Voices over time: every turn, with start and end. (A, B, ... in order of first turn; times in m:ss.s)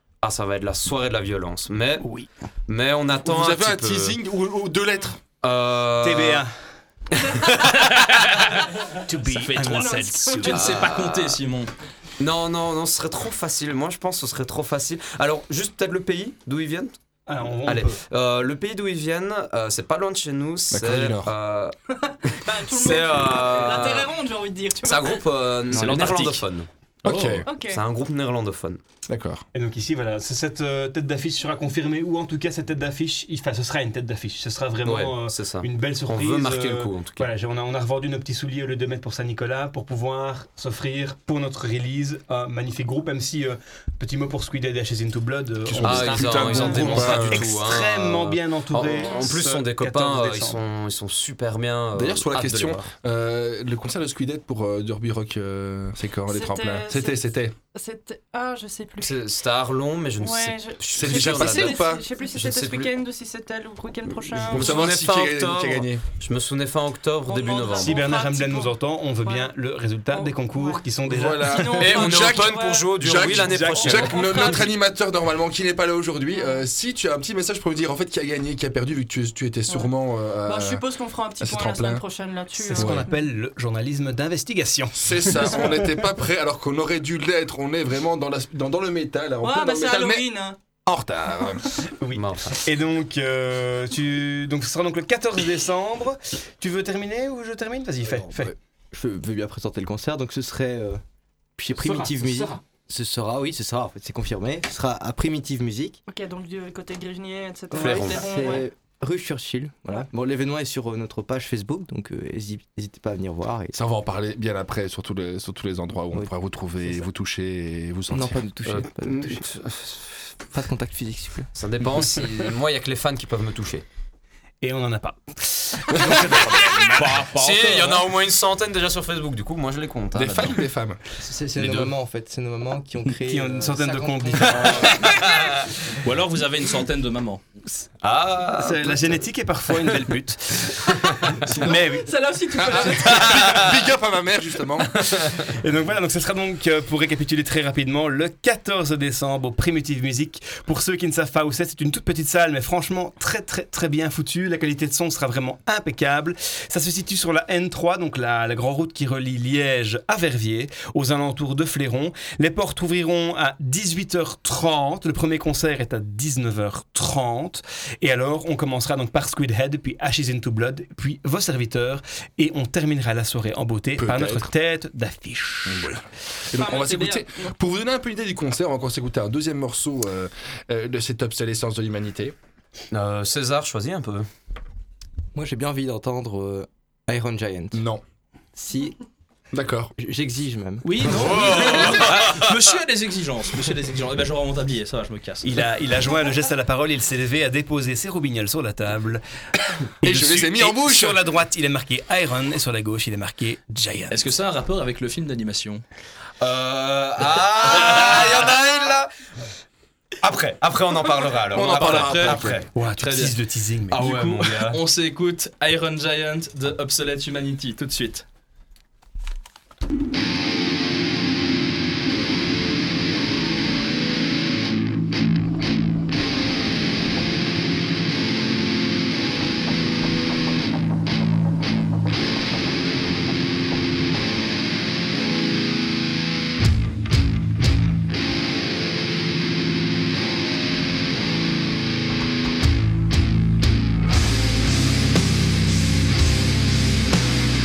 0:00.2-0:04.2 A
0:02.0-0:02.3 B
0:03.2-0:05.2 C
0:05.4-0:06.4 A
0:06.0-0:06.5 B
0:07.3-0:07.6 A
0:09.0-0:10.7 B
0:09.3-0:11.7 D
0:09.6-0:10.5 E
0:10.4-0:11.4 A
0:12.2-0:16.9 A
0:17.3-0:18.0 B
0:17.6-0:21.7 A
0:20.7-0:21.3 C
0:22.0-0:25.2 E
0:22.7-0:24.1 A
0:24.8-0:26.7 A
0:25.7-0:26.4 D
0:27.0-0:27.4 C
0:27.0-0:27.4 D
0:27.4-0:27.8 E
0:27.6-0:28.8 A
0:29.1-0:29.4 C
0:29.5-0:50.6 B
0:34.8-0:37.3 A
0:45.6-0:47.4 C
0:45.8-0:52.9 A
0:48.8-0:49.2 E
0:51.9-0:57.6 C
0:56.3-0:57.2 E
0:57.7-0:59.2 E
0:59.0-1:02.9 A
1:00.2-1:04.8 E
1:00.9-1:02.0 C
1:04.1-1:08.0 A
1:04.5-1:06.0 C
1:07.2-1:09.5 E
1:07.8-1:11.9 B
1:10.1-1:10.9 E
1:11.1-1:20.8 C
1:11.4-1:12.9 E
1:11.8-1:14.5 A
1:13.1-1:14.3 B
1:13.8-1:14.6 E
1:16.3-1:16.6 E
1:20.4-1:23.1 E
1:21.4-1:22.0 C
1:22.5-1:25.9 B
1:22.8-1:23.0 C
1:25.0-1:30.2 C
1:29.4-1:30.6 E
1:30.8-1:31.7 C
1:32.0-1:38.5 B
1:32.1-1:32.7 A
1:38.9-1:41.0 F
1:41.6-1:46.0 F
1:41.8-1:42.6 B
1:46.1-1:48.7 E
1:47.7-1:53.7 F
1:47.7-1:48.5 A
1:53.7-1:58.4 C
1:58.1-1:59.4 F
1:58.6-2:00.4 A
2:00.5-2:01.5 F
2:01.5-2:03.8 A
2:04.6-2:08.0 B
2:07.0-2:07.3 D
2:07.2-2:10.6 A
2:10.1-2:11.0 C
2:11.2-2:15.0 F
2:11.6-2:11.9 C
2:13.2-2:14.9 B
2:15.0-2:15.5 A
2:16.0-2:17.4 D
2:18.0-2:19.2 A
2:18.6-2:22.2 B
2:21.6-2:23.7 E
2:22.5-2:25.2 C
2:23.0-2:23.7 A
2:25.5-2:56.0 B
2:54.0-2:54.5 C
2:55.7-2:56.0 C
2:56.5-3:02.3 C
2:56.6-2:57.5 E
3:02.9-3:04.3 A
3:05.3-3:07.8 F
3:07.7-3:08.0 C
3:08.6-3:09.0 F
3:09.5-3:09.9 C
3:10.0-3:11.3 F
3:10.8-3:15.6 D
3:11.1-3:12.5 A
3:15.4-3:19.2 B
3:20.0-3:24.3 B
3:20.0-3:21.2 C
3:24.1-3:25.8 D
3:26.4-3:29.0 A
3:30.2-3:32.7 A
3:31.5-3:32.6 C
3:31.6-3:33.4 D
3:32.7-3:34.8 B
3:33.9-3:38.2 D